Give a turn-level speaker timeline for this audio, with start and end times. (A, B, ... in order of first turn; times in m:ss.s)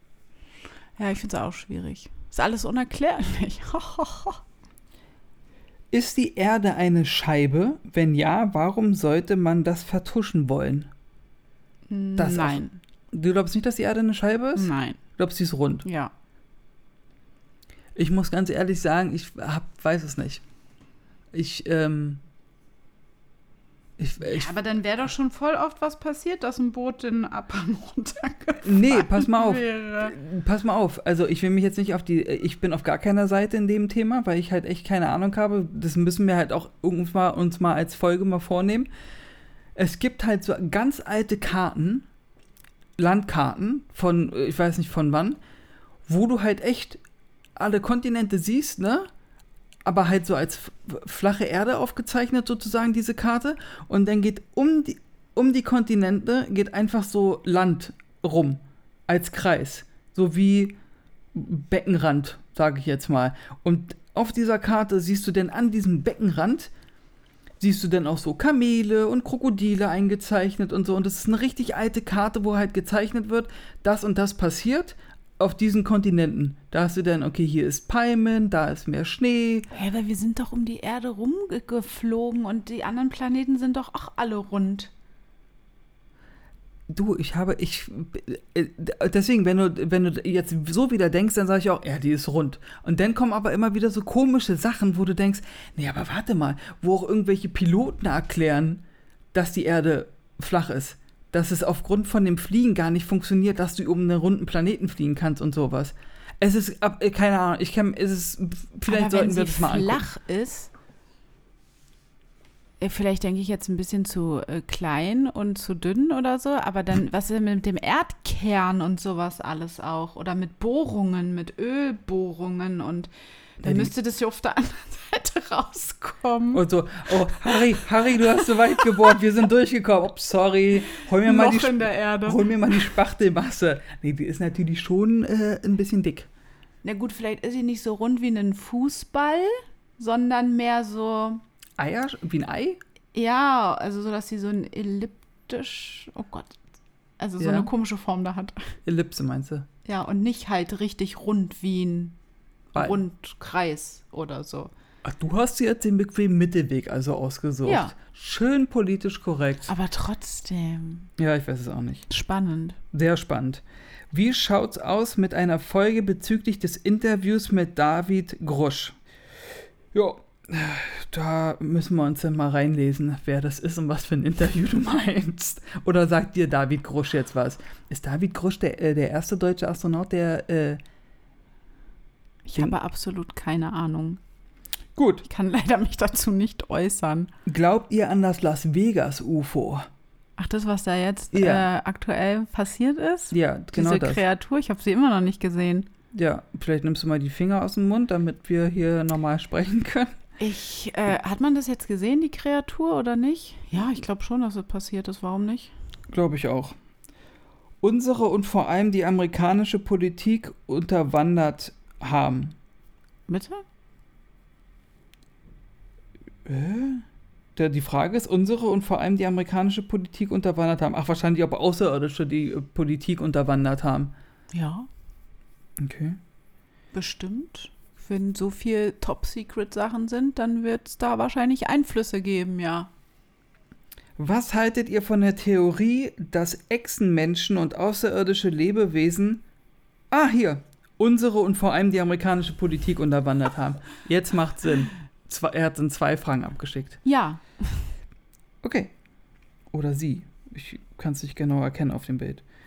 0:01.0-0:04.4 A
0:05.9-0:10.9 B
0:11.9-0:12.8 A
0:12.2-0:15.8 B
0:14.5-0:15.0 A
0:15.8-0:16.1 A
0:18.0-0:20.4 B
0:21.3-0:22.2 B
0:24.0-0:24.5 B
0:24.2-0:30.2 A
0:28.6-0:38.9 B
0:39.8-0:42.1 B
0:43.0-0:45.4 B
0:46.1-0:47.0 B
0:47.6-0:49.1 B
0:49.8-1:00.8 B
1:01.3-1:06.7 B
1:07.6-1:19.7 B
1:19.7-1:24.9 A
1:26.9-1:50.0 B
1:48.9-1:50.7 A
1:52.8-2:09.2 A
2:03.6-2:03.9 B
2:06.5-2:16.3 B
2:11.2-2:12.9 A
2:16.8-2:21.4 A
2:21.8-2:22.8 B
2:23.1-2:26.6 A
2:27.2-2:28.8 A
2:27.4-2:27.7 B
2:28.8-2:29.7 B
2:29.8-2:32.2 A
2:32.7-2:33.0 B
2:32.7-2:34.7 A
2:35.0-2:39.7 B
2:37.6-2:37.9 A
2:39.7-2:41.1 A
2:41.2-2:42.1 B
2:42.1-2:42.8 A
2:42.9-2:49.0 B
2:49.9-3:00.8 B
3:02.4-3:04.2 A
3:05.0-3:05.2 B
3:05.2-3:07.3 A
3:07.4-3:09.8 B
3:10.4-3:15.9 A
3:11.3-3:11.7 B
3:13.3-3:14.2 B
3:16.1-3:20.2 B
3:20.4-3:25.7 A
3:26.1-3:26.8 B
3:27.8-3:32.6 B
3:33.3-3:33.6 A
3:36.4-3:37.0 B
3:37.6-3:44.1 B
3:44.5-3:44.9 A
3:45.8-3:46.2 B
3:46.9-3:52.9 A
3:54.2-3:59.4 B
4:00.1-4:07.0 B
4:07.0-4:07.9 A
4:08.6-4:08.9 B
4:09.7-4:12.4 B